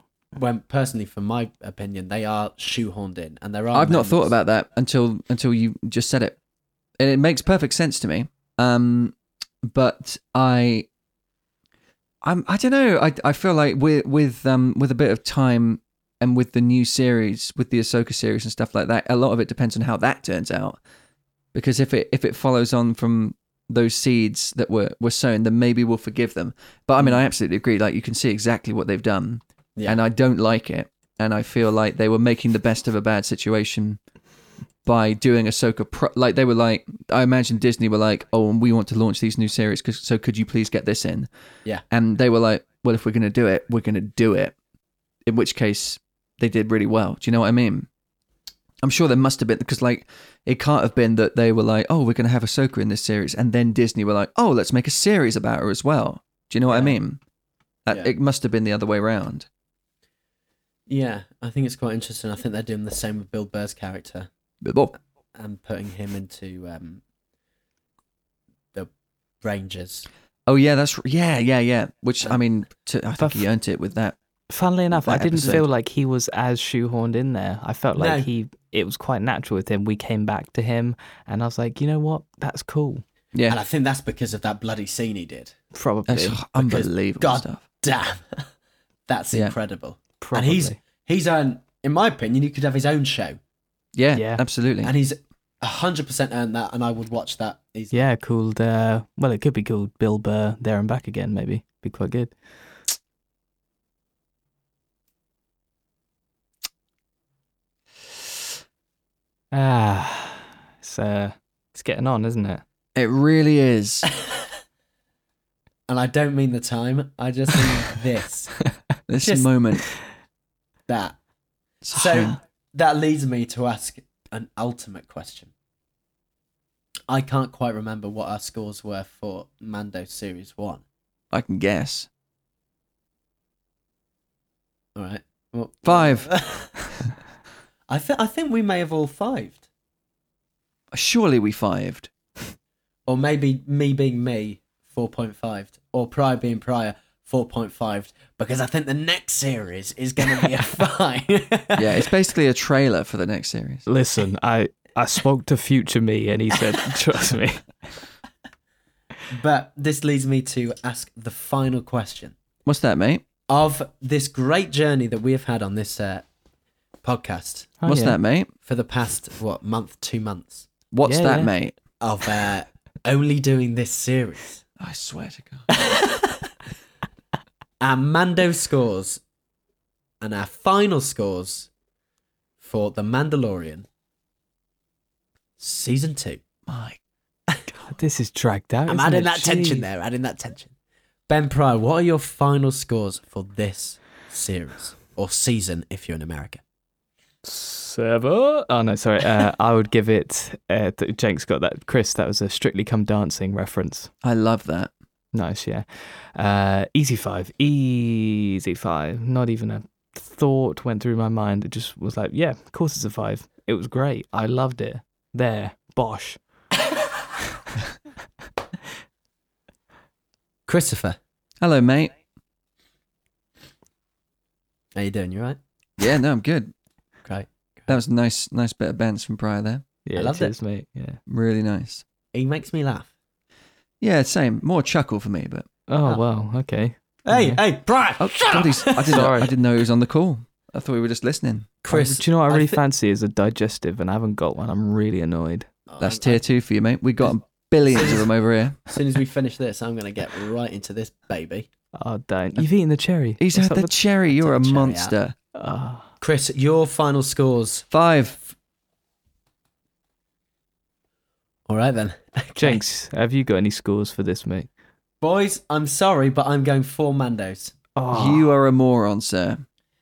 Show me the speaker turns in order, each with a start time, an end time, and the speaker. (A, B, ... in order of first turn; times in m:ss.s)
0:00.4-0:04.3 A
0:03.7-0:06.4 B
0:07.0-0:10.9 B
0:12.2-0:20.8 B
0:21.5-0:34.0 B
0:34.8-0:41.3 B
0:41.9-0:44.5 B
0:45.3-0:47.9 B
0:48.8-0:57.2 B
0:57.8-0:59.5 B
1:00.9-1:04.3 A
1:04.6-1:04.9 B
1:05.4-1:07.0 A
1:09.4-1:10.1 A
1:10.5-1:14.2 B
1:13.2-1:13.4 C
1:14.5-1:23.0 C
1:14.9-1:15.6 B
1:18.0-1:18.3 A
1:23.5-1:25.6 A
1:25.7-1:26.4 C
1:26.1-1:27.6 B
1:26.6-1:28.5 A
1:29.1-1:33.4 A
1:30.2-1:30.8 C
1:33.9-1:34.9 B
1:34.1-1:34.4 C
1:34.8-1:38.0 A
1:37.9-1:42.3 C
1:49.5-1:52.6 C
1:52.9-1:54.1 B
1:55.9-1:58.5 A
1:59.1-1:59.8 B
1:59.2-1:59.5 A
2:00.9-2:01.2 A
2:01.8-2:02.4 B
2:01.9-2:05.5 A
2:07.1-2:10.8 A
2:11.3-2:12.1 B
2:15.0-2:16.9 A
2:15.8-2:16.3 B
2:17.9-2:19.6 A
2:20.9-2:22.1 B
2:23.1-2:32.0 A
2:31.8-2:33.8 B
2:33.9-2:37.9 C
2:39.3-2:42.3 A
2:42.6-2:43.2 B
2:43.5-2:46.3 A
2:47.0-2:47.8 A
2:47.8-2:48.2 C
2:47.8-2:48.5 B
2:48.6-2:50.7 A
2:50.9-2:51.8 B
2:51.0-2:51.5 C
2:52.0-2:54.6 A
2:54.8-2:55.7 B
2:55.7-2:56.4 A
2:57.8-2:59.2 A
3:00.2-3:01.7 A
3:02.6-3:03.8 A
3:05.6-3:06.4 A
3:06.6-3:07.0 B
3:07.9-3:09.8 C
3:08.9-3:10.7 A
3:11.3-3:16.6 A
3:17.4-3:24.1 C
3:24.2-3:24.9 B
3:25.3-3:36.4 C
3:40.7-3:41.2 A
3:41.6-3:42.1 B
3:44.9-3:45.6 A
3:46.0-3:46.7 B
3:47.2-3:48.0 A
3:47.9-3:49.8 B
3:50.0-3:51.2 C
3:50.2-3:50.5 A
3:51.3-3:52.0 B
3:52.3-3:53.1 A
3:54.0-3:55.6 B
3:55.9-3:57.6 C
3:57.3-3:59.2 A
3:58.2-4:01.7 B
3:59.1-3:59.5 C
4:01.8-4:02.8 A
4:01.9-4:05.7 C
4:05.9-4:06.4 A
4:06.0-4:08.8 B
4:08.0-4:08.3 A
4:08.9-4:11.6 A
4:12.0-4:13.9 C
4:13.4-4:15.3 B
4:14.4-4:15.1 A
4:15.5-4:16.1 C
4:16.2-4:17.8 A
4:17.9-4:18.5 B
4:21.7-4:22.8 A
4:22.6-4:24.7 C
4:25.2-4:27.8 A
4:27.9-4:28.5 C
4:28.1-4:29.6 B